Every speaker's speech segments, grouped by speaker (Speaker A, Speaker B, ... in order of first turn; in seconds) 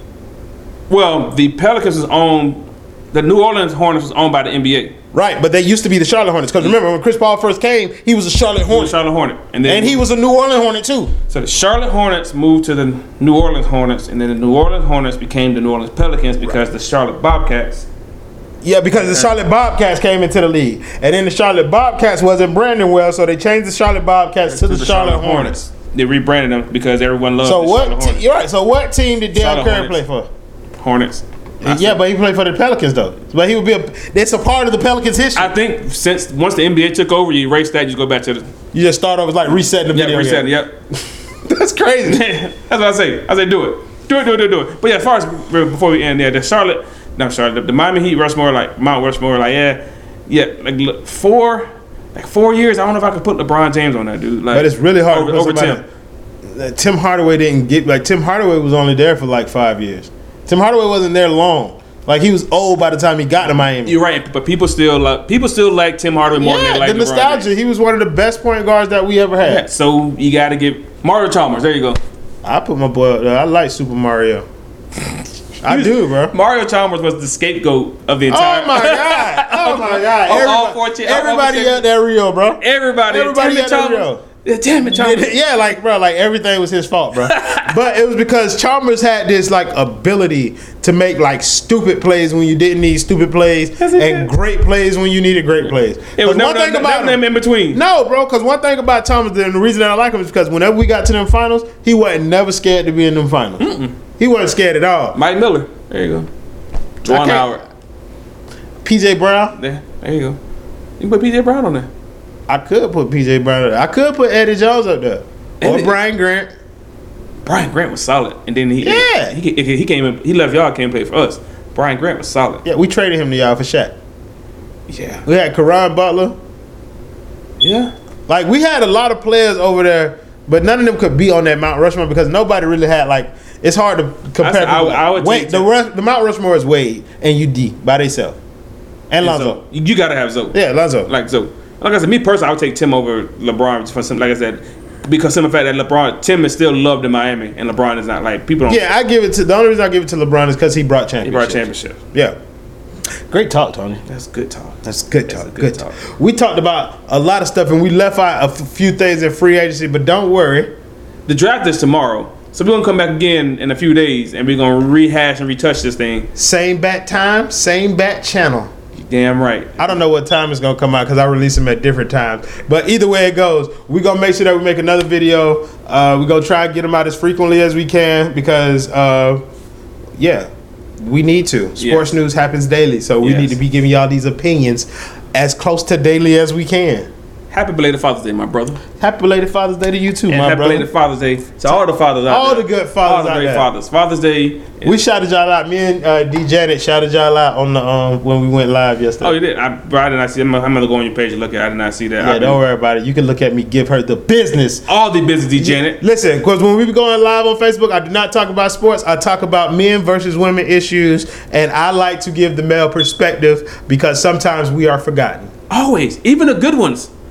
Speaker A: 0.9-4.9, 8.7-10.0, 11.3-17.9, 19.0-19.3, 24.5-28.2, 29.3-30.0, 30.8-32.0, 35.3-38.5, 39.9-40.7, 42.0-55.8, 63.8-67.5, 69.4-72.0, 75.7-81.8, 82.6-85.3, 87.2-87.7, 93.8-94.3, 96.2-97.8, 103.6-103.9, 105.1-106.3, 107.0-107.6, 109.5-110.4, 111.0-111.9, 115.6-115.9, 117.4-122.6, 124.9-125.2, 127.6-127.9, 134.4-135.7, 139.2-148.8, 151.2-152.0, 154.1-156.0, 161.3-166.3, 168.9-169.9, 181.8-182.1, 183.2-183.6, 187.5-188.8, 190.3-195.0, 199.2-202.6, 204.9-206.0, 215.7-217.1
Speaker B: 5.1-9.0, 9.7-11.1, 18.6-25.6, 27.4-30.3, 31.6-35.5, 38.7-40.5, 41.4-42.2, 54.5-55.8, 56.4-64.0, 66.3-69.6, 72.4-74.5, 75.6-76.3, 78.3-84.2, 84.9-103.6, 104.2-105.2, 107.0-107.5, 108.8-109.5, 112.5-116.5, 118.8-119.4, 122.6-124.0, 125.2-126.4, 128.3-138.4, 139.1-139.6, 140.5-141.1, 148.7-152.4, 153.3-154.0, 154.8-160.7, 166.3-168.7, 169.8-179.4, 180.2-187.1, 189.0-190.9, 192.3-193.7, 194.8-199.4, 202.2-204.8, 205.6-215.5